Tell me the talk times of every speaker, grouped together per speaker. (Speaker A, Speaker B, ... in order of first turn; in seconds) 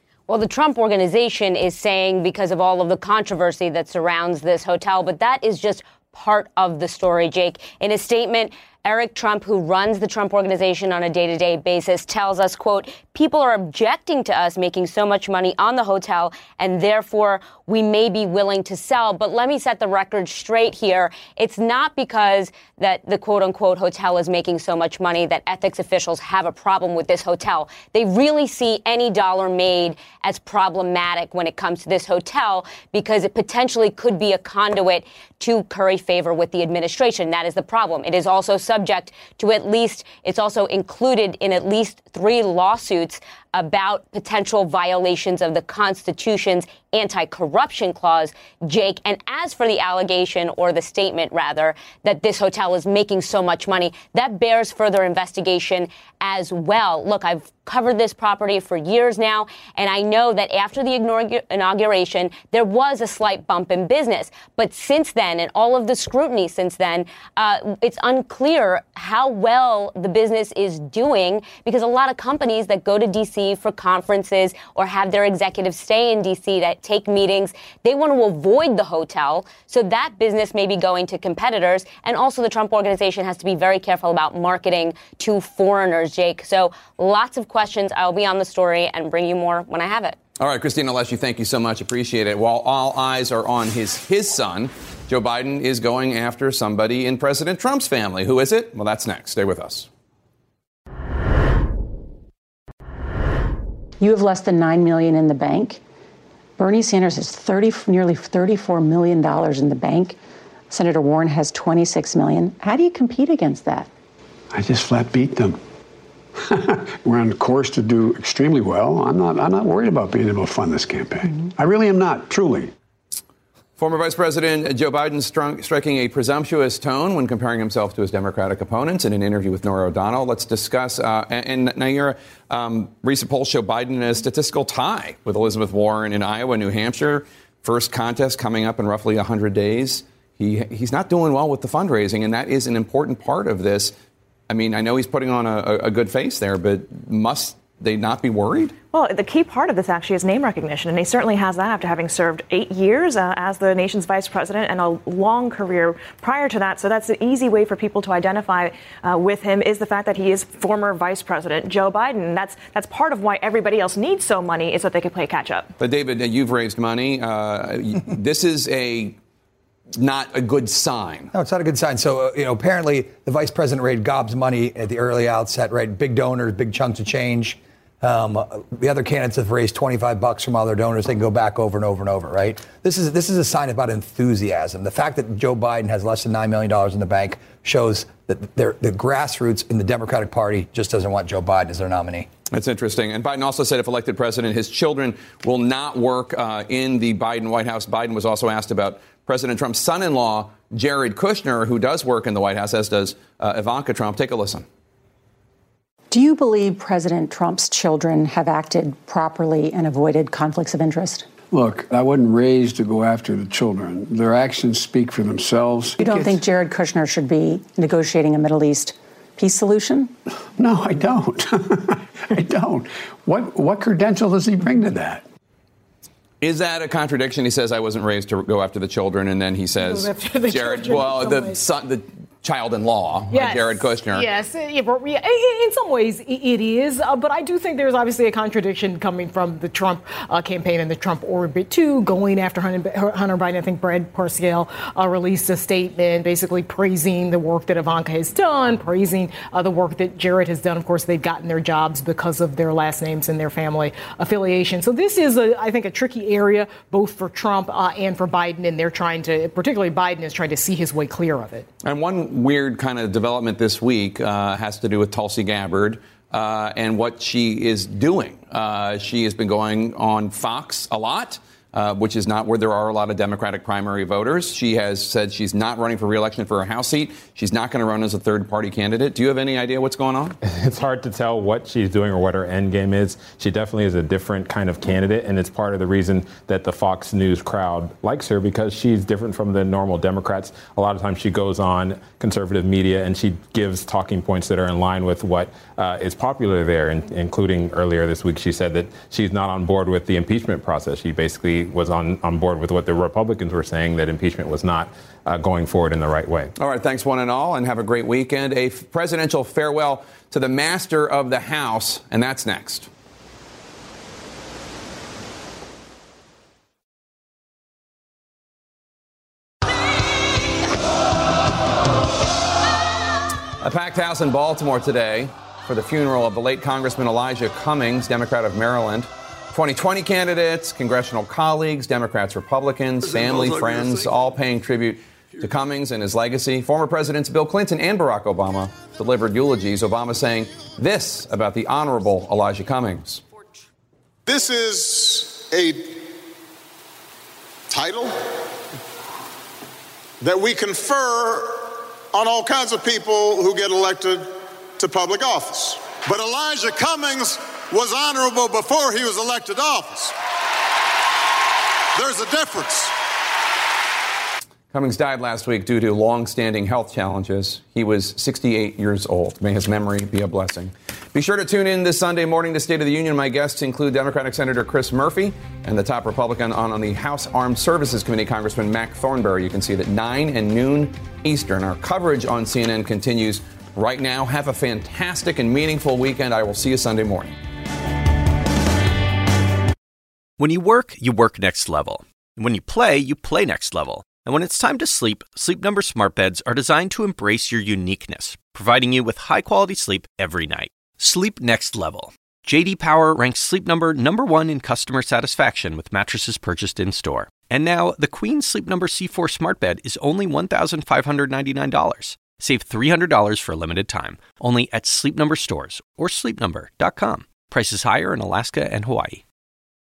Speaker A: 0.3-90.2
Speaker B: 90.4-99.9, 123.8-143.9, 144.5-148.8, 165.8-169.2, 170.0-171.3, 192.5-204.7, 226.4-234.3, 261.8-280.4, 306.6-312.9, 323.6-343.2, 364.7-387.4
Speaker C: 104.0-105.8, 106.6-110.2, 110.7-113.9, 206.1-211.3, 216.0-220.1
Speaker D: 114.5-115.6, 116.5-122.7, 211.5-216.4, 220.6-225.2
Speaker E: 148.9-165.7
Speaker F: 171.3-192.3
Speaker G: 229.8-231.6, 233.3-261.7
Speaker H: 280.4-306.5
Speaker I: 344.3-346.1, 347.7-348.2, 350.2-360.1, 362.0-362.9
Speaker J: 390.4-419.2